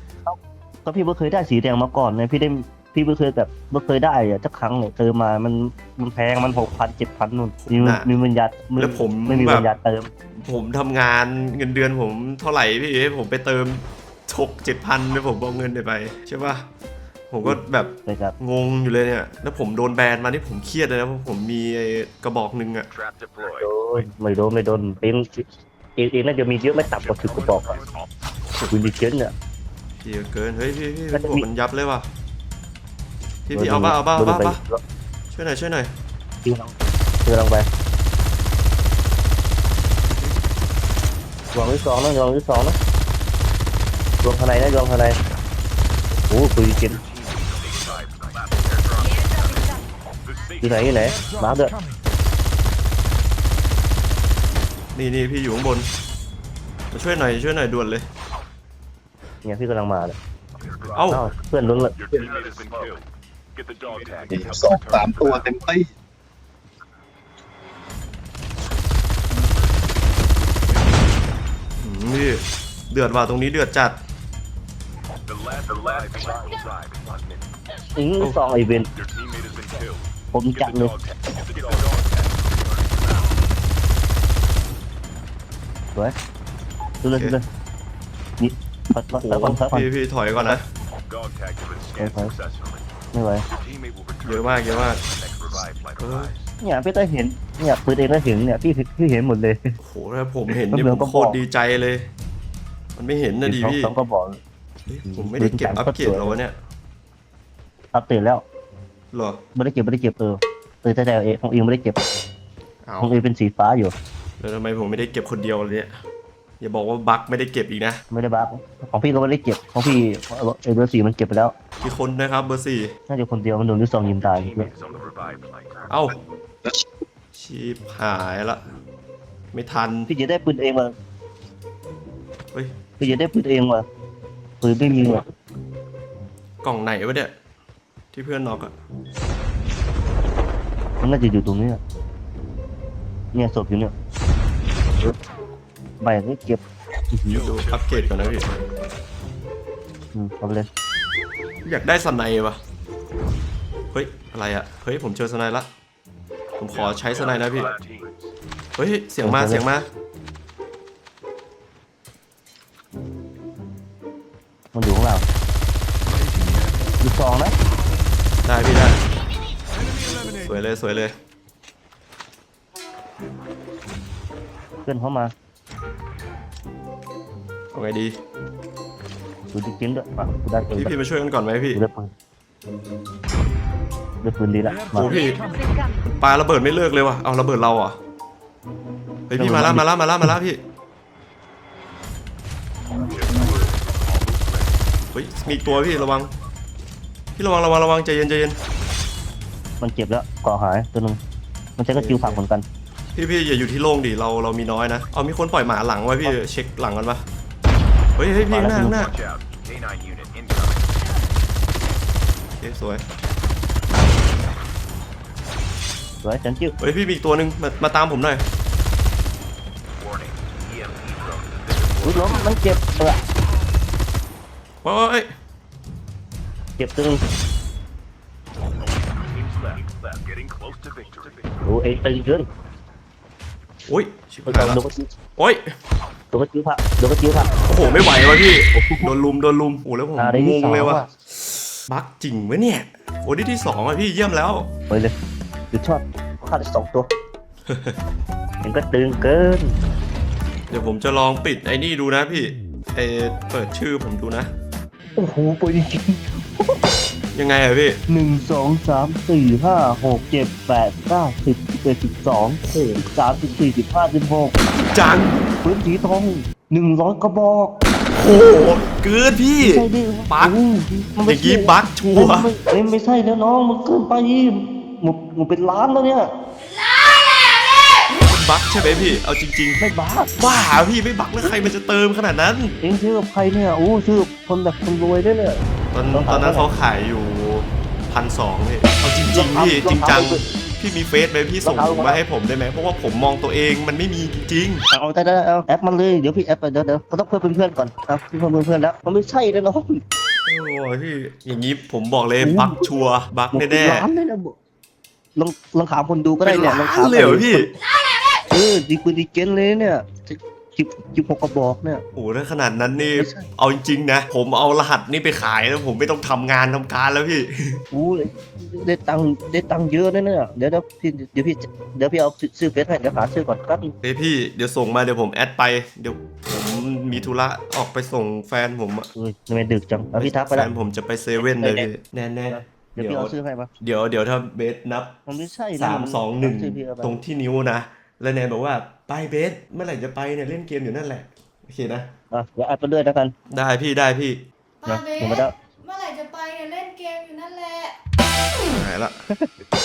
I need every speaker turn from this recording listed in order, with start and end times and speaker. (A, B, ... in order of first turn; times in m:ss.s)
0:00.3-0:10.1 A
0:07.6-0:08.1 B
0:08.8-0:09.7 B
0:10.3-0:16.7 B
0:17.3-0:22.9 B
0:17.4-0:18.4 A
0:22.9-0:23.7 C
0:23.6-0:27.8 A
0:27.0-0:28.1 C
0:28.7-0:29.3 A
0:30.0-0:32.1 B
0:31.1-0:31.5 A
0:33.5-0:34.6 B
0:33.6-0:34.8 A
0:35.3-0:35.9 B
0:36.4-0:36.7 A
0:37.2-0:37.7 A
0:41.5-0:42.8 A
0:44.2-0:45.2 A
0:46.3-0:47.0 A
0:46.8-0:51.3 C
0:50.6-0:51.8 A
0:54.9-0:55.9 B
0:56.9-0:58.1 B
0:59.4-1:00.2 A
1:00.6-1:01.3 C
1:00.9-1:01.3 B
1:01.1-1:01.9 A
1:01.9-1:03.0 C
1:02.1-1:02.6 D
1:03.6-1:05.5 C
1:04.3-1:05.9 D
1:11.8-1:14.0 B
1:15.3-1:17.6 C
1:18.0-1:18.9 A
1:18.9-1:23.4 C
1:20.3-1:20.9 A
1:27.0-1:27.4 A
1:27.1-1:27.4 B
1:28.4-1:30.6 A
1:29.1-1:30.7 B
1:31.1-1:32.9 C
1:32.0-1:32.3 A
1:33.1-1:33.4 A
1:33.5-1:36.4 C
1:34.2-1:35.0 B
1:36.0-1:36.3 B
1:36.6-1:39.8 A
1:39.8-1:42.1 B
1:40.5-1:41.4 A
1:43.0-1:43.9 B
1:43.4-1:44.4 A
1:44.9-1:46.6 B
1:45.1-1:46.4 A
1:47.9-1:48.4 A
1:49.1-1:49.4 B
1:49.6-1:52.0 A
1:52.8-1:53.2 B
1:53.0-1:53.9 A
1:54.4-1:56.0 B
1:56.6-1:58.0 B
1:58.1-2:01.5 A
2:01.8-2:02.9 B
2:03.1-2:04.7 A
2:04.2-2:06.1 C
2:05.9-2:06.2 B
2:07.3-2:08.7 B
2:09.5-2:10.1 B
2:10.1-2:10.9 A
2:13.0-2:13.9 A
2:14.6-2:15.3 A
2:16.6-2:17.3 B
2:18.1-2:18.7 B
2:21.0-2:21.8 A
2:23.3-2:23.9 A
2:26.0-2:27.4 A
2:27.3-2:28.6 C
2:27.3-2:28.5 B
2:30.2-2:30.7 A
2:31.6-2:32.6 B
2:33.9-2:35.7 B
2:36.6-2:37.7 B
2:36.7-2:38.2 C
2:38.8-2:39.9 B
2:39.2-2:39.7 A
2:44.7-2:45.3 A
2:47.0-2:47.5 A
2:48.4-2:49.0 B
2:50.3-2:51.2 B
2:54.8-2:55.3 A
2:57.7-2:58.2 B
2:59.5-3:01.0 A
3:00.7-3:01.8 B
3:01.7-3:02.1 A
3:04.2-3:05.1 A
3:04.9-3:05.4 B
3:05.1-3:05.9 E
3:06.0-3:08.0 B
3:09.3-3:10.6 B
3:09.4-3:10.3 A
3:12.9-3:13.6 D
3:12.9-3:14.8 C
3:15.1-3:16.3 B
3:15.5-3:16.2 C
3:17.4-3:18.6 B
3:19.8-3:21.2 A
3:21.8-3:22.6 A
3:22.0-3:22.4 B
3:23.1-3:27.2 B
3:28.2-3:29.1 B
3:28.5-3:29.0 A
3:28.8-3:31.0 C
3:32.6-3:33.0 B
3:36.2-3:36.8 A
3:36.8-3:38.4 B
3:40.0-3:42.8 C
3:42.0-3:43.2 A
3:44.8-3:45.3 B
3:46.8-3:47.2 A
3:48.7-3:51.6 C
3:51.6-3:52.5 A
3:53.9-3:54.8 B
3:54.5-3:55.1 A
3:55.4-3:55.8 B
3:56.3-3:57.6 A
3:57.7-4:04.7 B
3:58.7-3:59.1 A
4:00.2-4:01.1 A
4:05.7-4:07.1 A
4:07.7-4:08.0 B
4:08.6-4:09.8 A
4:10.7-4:14.5 B
4:15.2-4:16.8 A
4:17.3-4:18.0 B
4:18.1-4:24.6 A
4:24.9-4:25.4 B
4:25.6-4:27.8 A
4:28.1-4:30.6 B
4:29.6-4:36.3 A
4:31.2-4:32.5 B
4:38.1-4:39.8 B
4:39.8-4:40.4 A
4:40.4-4:42.8 B
4:42.8-4:45.6 A
4:45.9-4:54.8 B
4:46.1-4:46.7 A
4:49.3-4:50.4 A
4:51.6-4:52.2 A
4:54.9-5:00.0 A
5:00.5-5:04.1 B
5:02.4-5:02.9 A
5:03.5-5:04.6 A
5:05.4-5:07.7 A
5:06.4-5:07.7 B
5:08.5-5:12.0 A
5:12.2-5:17.8 B
5:13.2-5:13.5 A
5:17.9-5:24.0 A
5:24.0-5:29.1 B
5:29.2-5:30.7 A
5:30.2-5:35.2 B
5:31.4-5:31.9 A
5:32.5-5:33.7 A
5:35.3-5:37.2 A
5:35.8-5:42.1 B
5:42.3-5:43.4 A
5:43.5-5:44.4 B
5:44.8-5:48.0 E
5:44.9-5:45.5 A
5:48.7-5:49.2 B